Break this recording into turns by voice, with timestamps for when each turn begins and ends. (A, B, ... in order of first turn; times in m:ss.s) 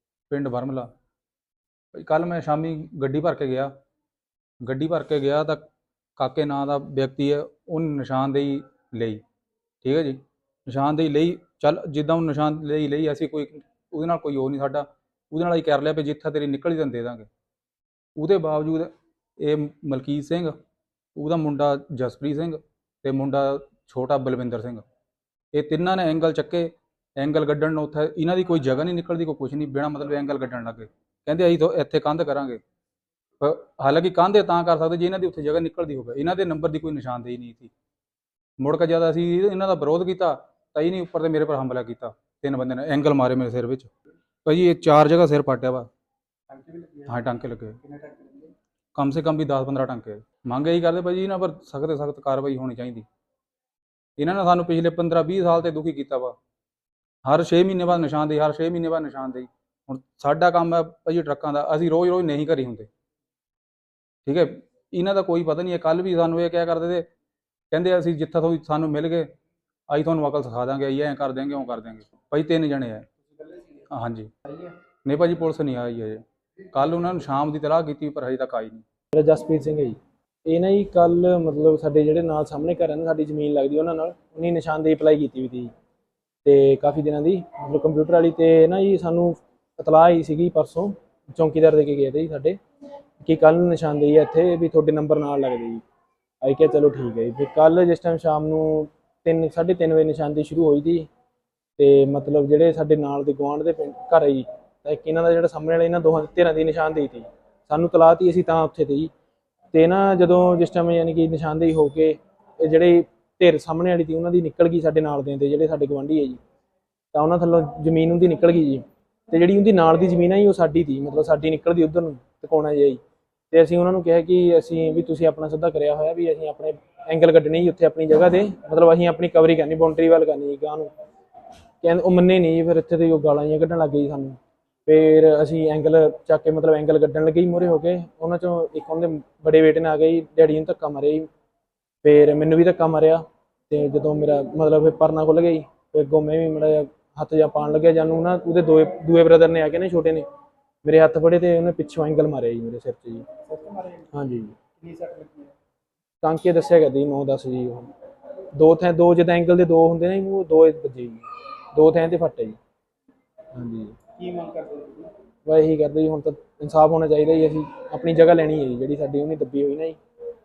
0:00.3-0:00.9 A
0:02.0-0:03.7 A
0:04.6-0:05.6 A
0:06.2-0:09.2 A
0:09.8-0:17.3 A
0:18.2-0:20.6 A
0:21.2-0:24.8 A
0:25.5-0:32.6 A
0:33.4-0:37.7 A
0:38.6-0:43.9 A
0:44.5-0:45.9 A
0:46.5-0:47.1 B
0:47.1-0:47.8 A
0:47.9-0:48.5 B
0:49.0-0:53.0 A
0:54.2-0:56.4 A
0:57.3-1:02.9 A
1:04.3-1:07.1 A
1:07.7-1:09.3 A
1:09.9-1:13.1 A
1:13.9-1:14.3 A
1:15.0-1:18.8 A
1:19.1-1:25.7 C
1:26.4-1:32.6 C
1:33.2-1:35.8 C
1:36.4-1:41.1 C
1:41.8-1:49.1 C
1:49.7-1:56.4 C
1:57.1-2:03.0 C
2:03.5-2:10.9 C
2:11.8-2:21.3 C
2:22.0-2:30.3 C
2:30.8-2:33.3 C
2:33.5-2:34.1 B
2:34.1-2:34.6 C
2:34.7-2:35.5 B
2:36.2-2:37.9 C
2:38.6-2:42.6 C
2:43.5-2:44.0 C
2:44.1-2:45.1 B
2:45.5-2:50.0 C